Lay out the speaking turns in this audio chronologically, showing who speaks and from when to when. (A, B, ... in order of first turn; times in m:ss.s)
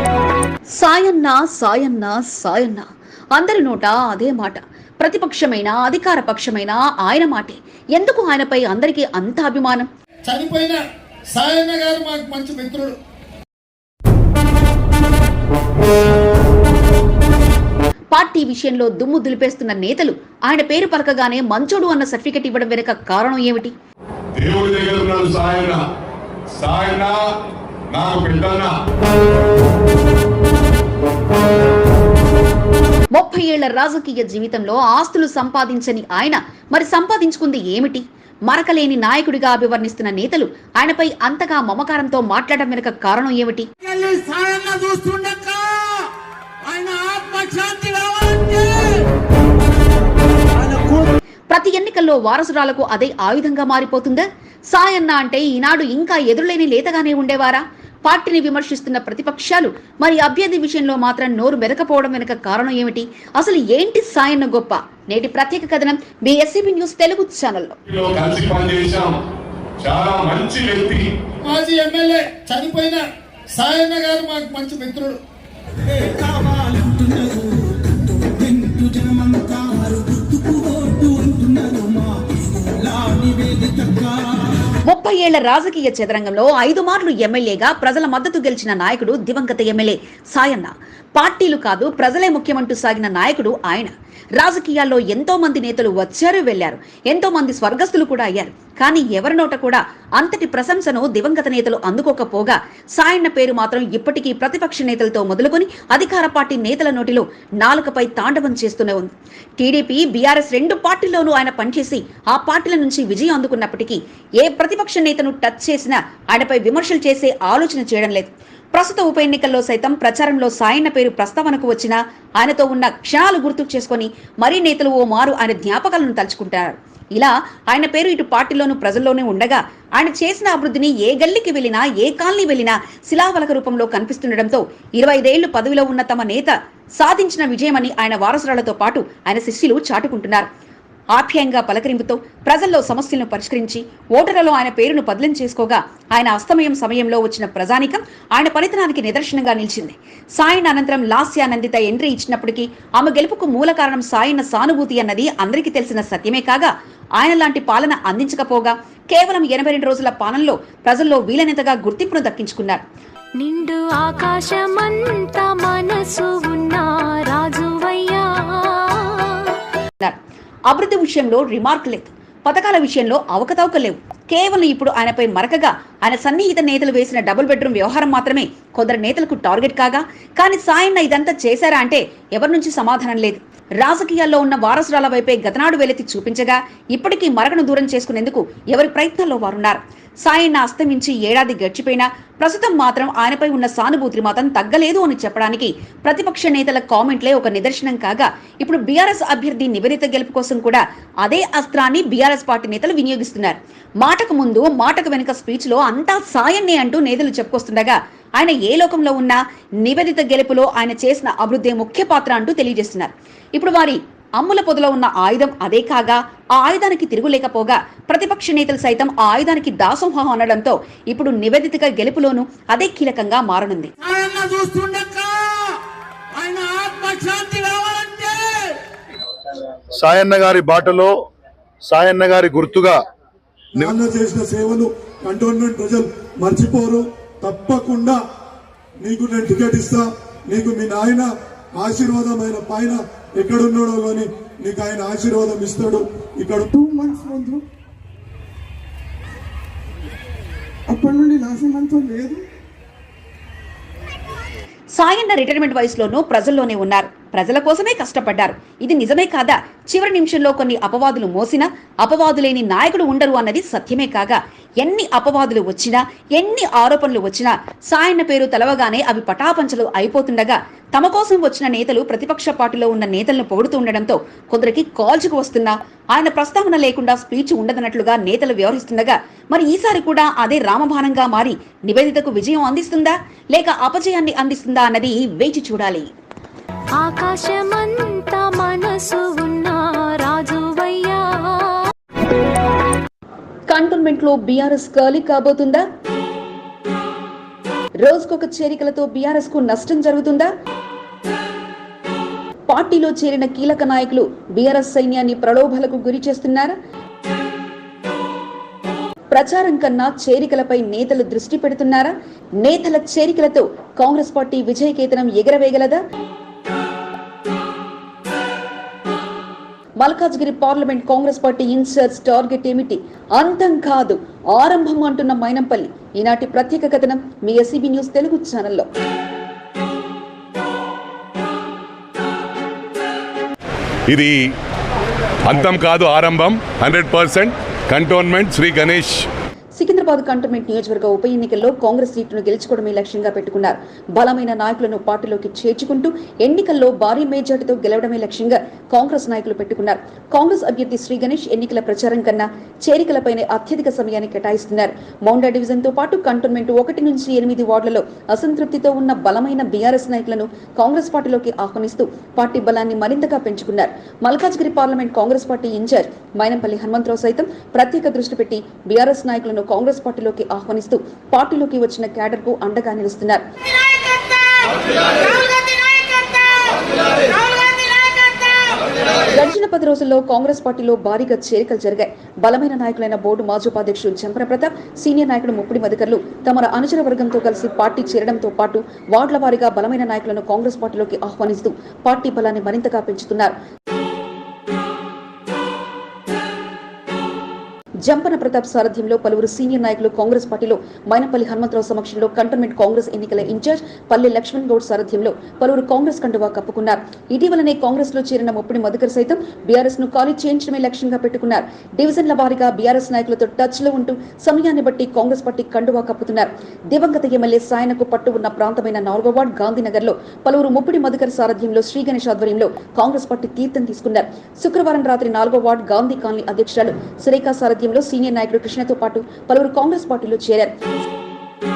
0:00.8-0:09.9 A
0:10.3-0:10.8 B
0:11.3-0:13.0 B
0:18.1-0:23.7 A
0:24.4-0:25.8 C
0:26.5-0:27.2 C
0:27.9-0:28.8 C
0:33.1-0:43.7 A
0:43.8-0:46.1 B
0:46.7-0:48.9 B
0:51.5-1:07.8 A
1:07.9-1:09.2 C
1:09.8-1:11.1 C
1:11.4-1:15.2 B
1:15.9-1:24.6 D
1:24.9-2:20.5 A
2:21.1-2:42.8 A
2:43.4-2:49.5 E
2:50.7-3:43.9 A
3:44.0-3:45.8 B
3:46.4-3:48.5 B
3:49.9-3:51.1 F
3:51.9-3:53.0 F
3:53.8-3:58.2 G
3:59.0-4:06.7 G
4:06.7-4:07.6 H
4:10.9-4:12.4 H
4:15.0-4:46.1 A
4:47.0-4:51.9 E
4:53.7-4:55.8 A
4:58.0-5:00.5 A
5:02.7-5:06.8 A
5:09.3-5:16.0 A
5:20.0-5:28.9 A
5:34.1-5:34.4 C
5:35.5-5:39.3 C
5:39.8-6:13.4 A
6:19.3-6:33.5 A
6:38.0-7:10.7 A